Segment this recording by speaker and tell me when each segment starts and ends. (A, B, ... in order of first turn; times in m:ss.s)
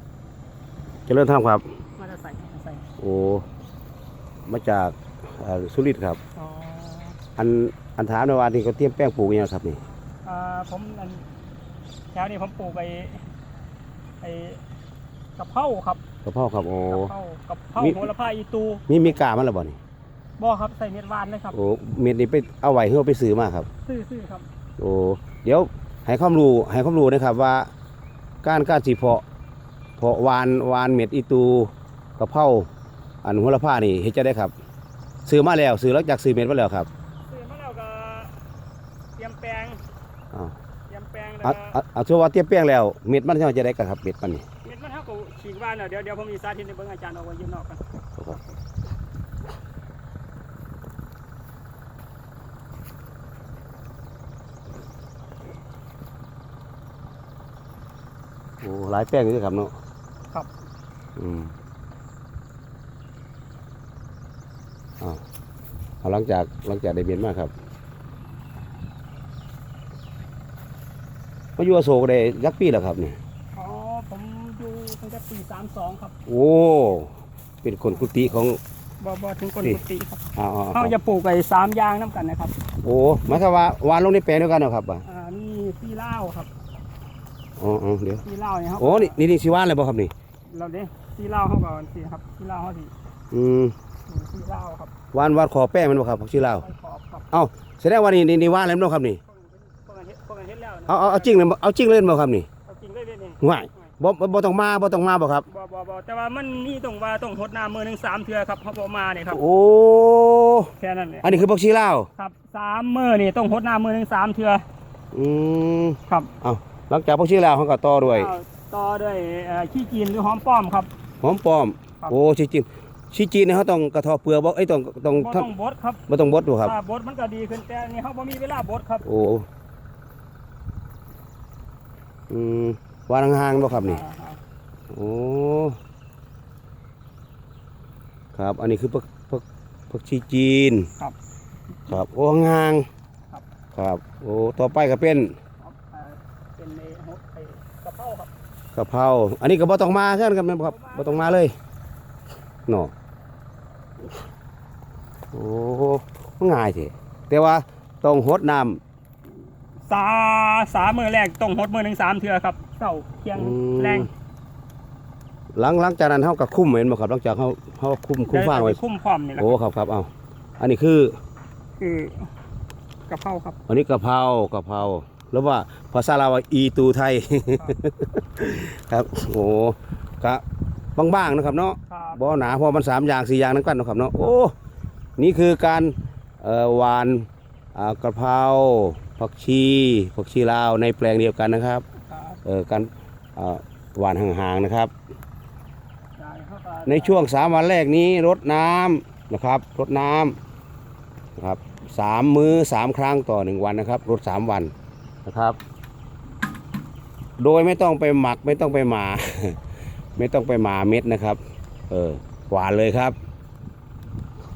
0:01.1-0:01.6 A
0:02.0-0:02.8 B
0:03.0-0:03.4 A
0:04.5-0:06.2 A
0:06.4-0:07.2 B
0:07.4-0:09.8 A
0:10.2-0:11.3 B
0:12.1-0:13.3 B
0:14.2-0:14.6 B
0:15.4-0:16.0 B
0:16.2-0:17.1 A
0:16.9-0:19.0 B
0:18.9-0:19.8 A
0:20.4-0:21.6 B
0:21.5-0:23.7 A
0:23.8-0:24.5 B
0:24.8-0:27.7 A
0:28.4-0:29.2 A
0:30.0-0:32.7 A
0:33.2-0:34.5 A
0:35.2-0:36.9 A
0:37.2-0:38.4 B
0:39.2-0:39.8 B
0:40.9-0:41.8 B
0:41.4-0:44.4 A
0:44.6-0:47.8 B
0:58.6-0:59.7 A
1:01.2-1:01.5 A
1:06.0-1:07.5 A
1:11.6-1:13.2 A
1:13.5-1:16.1 B
1:16.3-1:17.1 A
1:17.6-1:18.6 A
1:19.0-1:22.6 B
1:20.4-1:20.9 A
1:22.8-1:25.0 A
1:25.0-1:26.5 B
1:27.6-1:28.2 A
1:28.1-1:29.2 B
1:28.8-1:30.1 A
1:30.5-1:32.9 B
1:33.3-1:33.7 A
1:34.1-1:34.9 B
1:35.1-1:36.6 A
1:36.6-1:37.3 B
1:37.3-1:39.2 A
1:39.3-1:41.5 B
1:40.9-1:42.5 A
1:42.6-1:43.9 B
1:43.4-1:45.4 A
1:45.4-1:49.4 B
1:49.3-1:50.7 A
1:50.8-1:51.4 B
1:51.2-1:52.1 A
1:52.2-1:54.6 B
1:55.1-1:58.3 A
1:56.1-1:56.3 B
1:58.0-2:00.9 B
2:01.2-2:05.5 A
2:05.1-2:06.0 B
2:06.1-2:06.8 A
2:06.6-2:09.0 B
2:09.0-2:09.4 A
2:12.3-2:14.0 A
2:13.6-2:14.4 B
2:14.9-2:15.8 A
2:18.3-2:20.9 A
2:21.9-2:22.8 A
2:23.7-2:25.3 A
2:25.6-2:28.3 B
2:28.7-2:31.5 A
2:30.6-2:31.4 B
2:32.7-2:32.9 A
2:35.3-2:38.8 A
2:39.8-2:44.1 B
2:43.3-2:44.1 A
2:45.5-2:48.8 A
2:48.3-2:49.5 B
2:49.4-2:51.2 A
2:51.8-2:52.3 B
2:53.1-2:53.6 B
2:53.7-3:00.4 A
3:01.0-3:04.5 A
3:01.9-3:02.2 B
3:05.2-3:11.8 A
3:12.0-3:12.4 B
3:12.4-3:14.9 A
3:16.2-3:17.2 B
3:16.8-3:20.4 A
3:21.4-3:24.7 A
3:25.2-3:25.6 A
3:27.4-3:29.6 A
3:30.2-3:33.2 A